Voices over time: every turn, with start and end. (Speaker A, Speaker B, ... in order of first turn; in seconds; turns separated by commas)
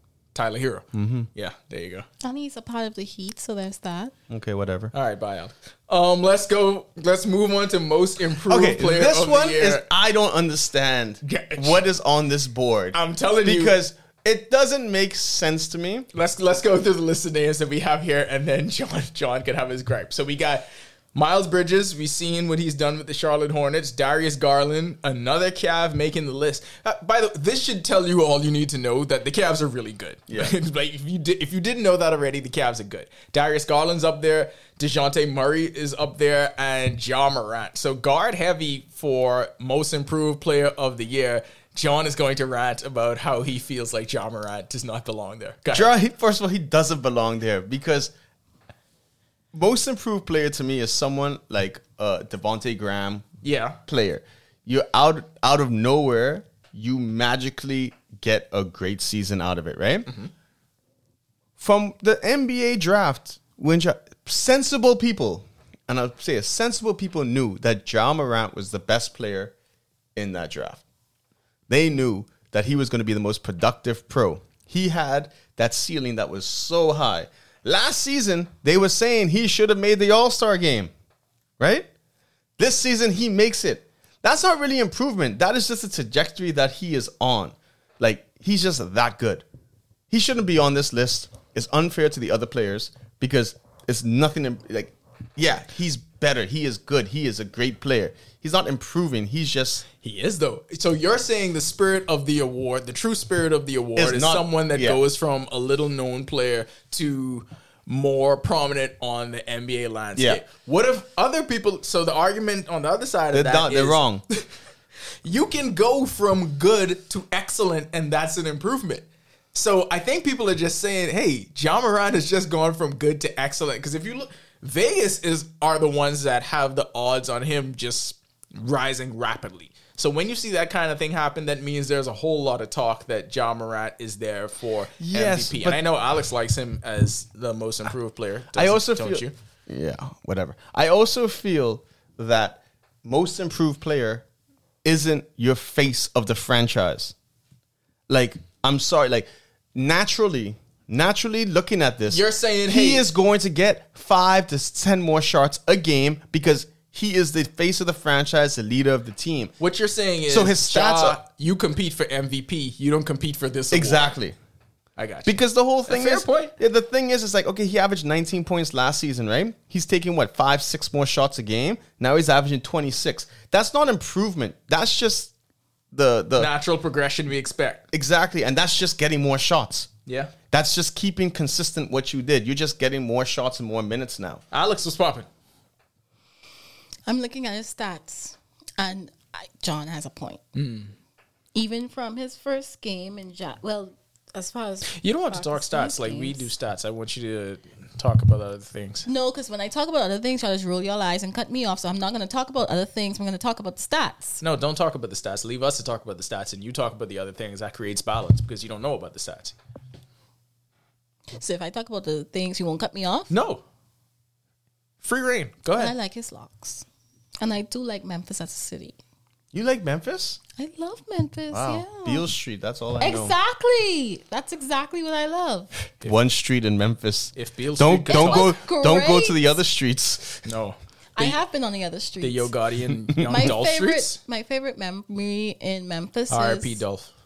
Speaker A: 0.3-2.1, Speaker B: 0.9-1.3, Speaker C: 2.2-4.1, Speaker B: 4.3-4.9, Speaker A: 4.9-9.8, Speaker B: 8.5-16.1, Speaker A: 11.2-11.8, Speaker A: 12.9-13.8, Speaker A: 16.1-45.9, Speaker B: 30.3-30.5, Speaker B: 45.7-48.1, Speaker B: 49.5-53.3, Speaker A: 53.4-53.8, Speaker B: 53.9-60.1, Speaker B: 61.6-69.5, Speaker B: 70.2-70.8, Speaker B: 71.7-80.9, Speaker B: 81.6-81.9, Speaker B: 82.6-89.4, Speaker B: 90.1-99.8, Speaker A: 100.0-114.5, Speaker B: 104.0-105.0, Speaker B: 110.2-110.4, Speaker B: 113.3-114.2, Speaker A: 115.2-139.3, Speaker B: 135.0-135.8, Speaker B: 138.5-144.3, Speaker B: 144.8-147.1, Speaker B: 148.1-159.6, Speaker A: 152.1-153.0, Speaker A: 159.6-164.2, Speaker B: 160.3-161.2, Speaker B: 163.7-164.4, Speaker A: 165.0-166.5, Speaker B: 165.3-175.3, Speaker B: 175.9-176.5, Speaker A: 176.4-177.8, Speaker B: 177.9-179.9, Speaker A: 180.1-180.3, Speaker B: 180.5-184.4, Speaker A: 184.5-185.3, Speaker C: 187.1-190.4, Speaker A: 190.6-190.9, Speaker C: 191.5-196.5, Speaker A: 194.9-199.1, Speaker C: 199.1-204.4, Speaker A: 204.4-209.6, Speaker C: 211.3-213.3, Speaker A: 213.3-213.6, Speaker A: 215.0-215.9, Speaker C: 215.8-216.8, Speaker C: 217.4-219.0, Speaker B: 219.5-220.4, Speaker C: 220.6-222.2, Speaker B: 221.5-223.3, Speaker C: 223.0-225.7, Speaker B: 226.0-230.5, Speaker A: 227.4-228.6, Speaker C: 228.1-229.6, Speaker A: 230.4-231.4, Speaker C: 231.2-232.5, Speaker A: 232.2-234.2, Speaker C: 233.2-236.8, Speaker A: 236.3-237.1